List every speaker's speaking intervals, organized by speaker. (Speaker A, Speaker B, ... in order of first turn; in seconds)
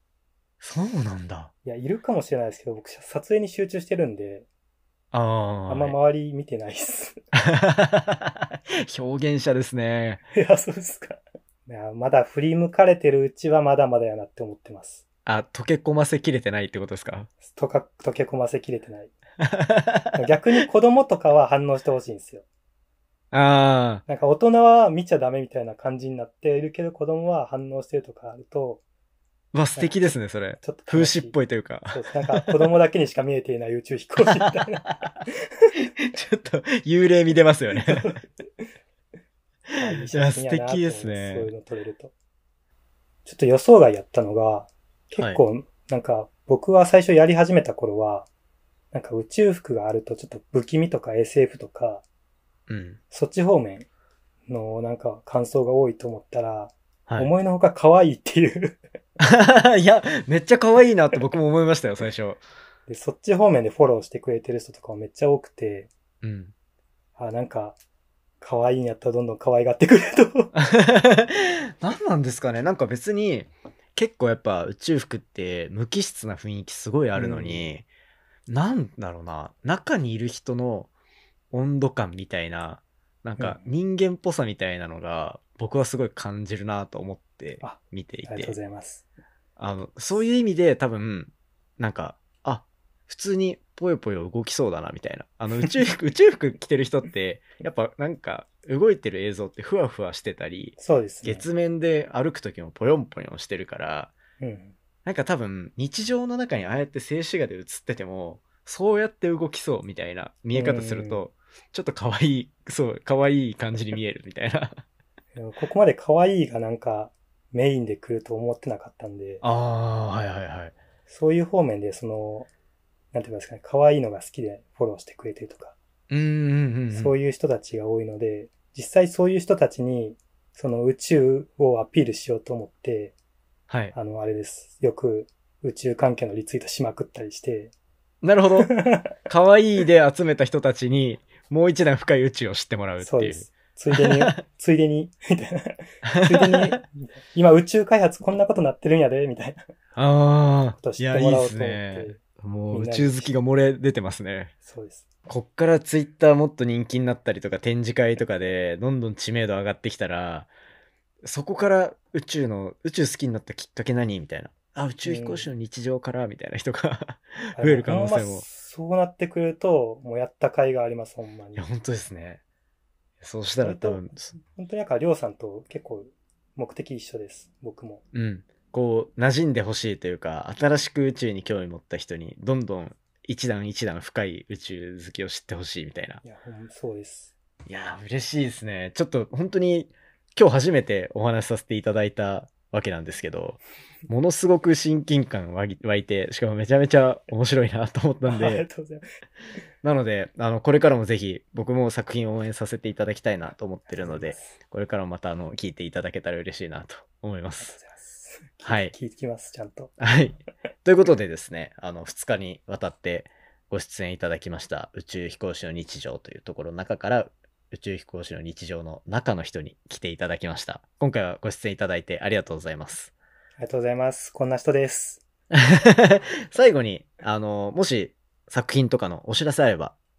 Speaker A: 0.6-1.5, 5.1-6.0, 7.4-10.2, 15.2-17.3, 19.4-20.2, 23.3-24.0, 29.5-32.5, 34.2-35.1, 36.0-38.1, 39.7-41.5, 52.7-53.0, 59.2-62.4, 66.2-66.5, 70.5-77.9, 78.5-80.9, 81.5-88.5, 89.6-104.1, 105.0-114.8, 119.4-120.7, 126.1-127.2, 133.7-133.9, 138.2-138.8, 139.3-144.4, 146.1-146.8, 149.9-154.5, 155.3-160.5, 161.2-168.4, 171.6-172.4, 173.2-174.3, 178.1-186.2, 187.7-198.6, 199.8-207.7, 208.6-208.9, 210.0-223.1, 225.5-229.9
Speaker B: 1.6-4.5, 5.7-7.2, 10.3-15.0, 17.4-19.1, 20.1-22.4, 24.1-28.8, 29.8-31.4, 31.9-35.0, 37.7-38.6, 39.8-42.1, 43.2-48.3, 48.9-52.0, 53.1-53.9, 54.5-58.8, 62.9-65.9, 67.2-67.8, 68.4-70.5, 77.1-77.7, 87.6-89.0, 100.8-101.5, 104.4-104.7, 110.5-111.2, 115.3-119.4, 121.1-122.5, 123.1-125.7, 126.9-133.1, 133.9-137.7, 138.6-139.1, 143.0-149.6, 150.7-153.3, 154.6-155.0, 165.0-165.5, 167.5-171.7, 173.6-178.0, 186.2-187.3, 198.3-199.0, 203.9-204.6, 207.6-209.9, 223.6-225.2